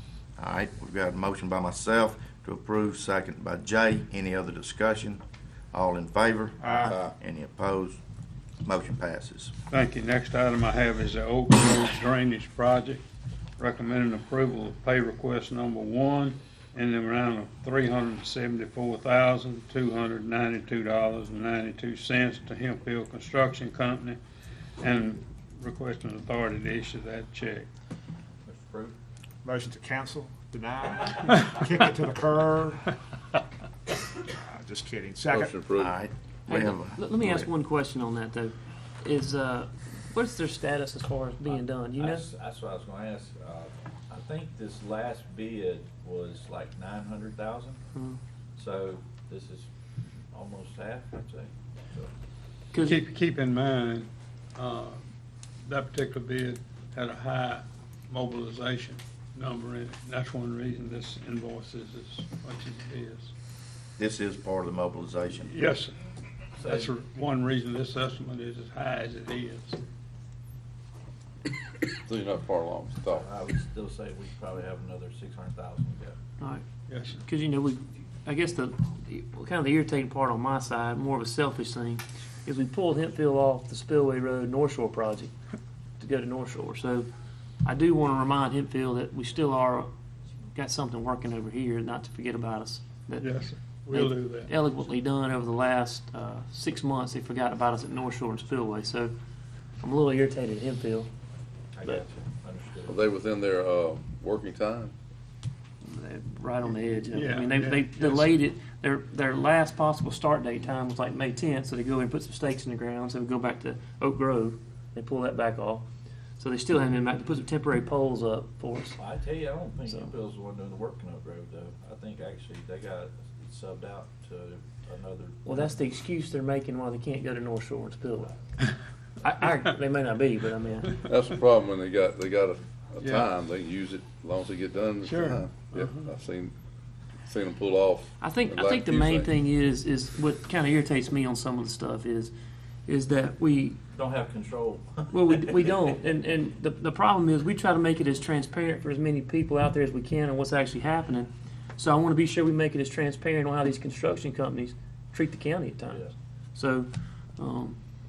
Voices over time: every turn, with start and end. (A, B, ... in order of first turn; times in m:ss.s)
0:00.4-0:08.0 A
0:06.6-0:07.0 B
0:08.6-0:09.5 A
0:09.7-0:13.0 C
0:13.6-0:24.2 C
0:24.8-0:27.7 C
0:28.4-0:29.0 D
0:29.4-0:32.8 B
0:34.5-0:35.6 B
0:35.3-0:35.9 E
0:35.8-0:37.5 A
0:36.5-0:42.2 F
0:41.4-0:47.8 D
0:47.9-0:48.2 F
0:48.6-0:49.7 D
0:50.3-0:52.1 D
0:52.7-0:53.0 F
0:52.8-0:55.0 C
0:55.7-1:03.3 C
1:04.0-1:05.5 A
1:05.5-1:05.9 C
1:06.6-1:07.0 D
1:06.6-1:09.8 C
1:11.8-1:13.2 E
1:13.1-1:16.2 D
1:16.9-1:17.2 C
1:17.2-1:25.3 F
1:26.0-1:27.1 F
1:27.6-1:29.9 F
1:30.5-1:33.3 F
1:33.2-1:34.5 C
1:33.9-1:39.1 F
1:39.8-1:41.1 F
1:41.8-1:43.1 D
1:42.9-1:44.9 E
1:45.8-1:55.8 F
1:47.1-1:48.3 C
1:56.4-1:59.0 F
1:59.0-2:05.8 D
2:05.4-2:08.3 F
2:09.2-2:10.9 F
2:11.0-2:16.5 E
2:13.0-2:13.3 C
2:15.0-2:16.1 C
2:17.3-2:19.3 E
2:18.2-2:22.3 F
2:22.9-2:23.8 F
2:23.9-2:25.6 D
2:25.1-2:36.0 F
2:36.5-2:37.8 F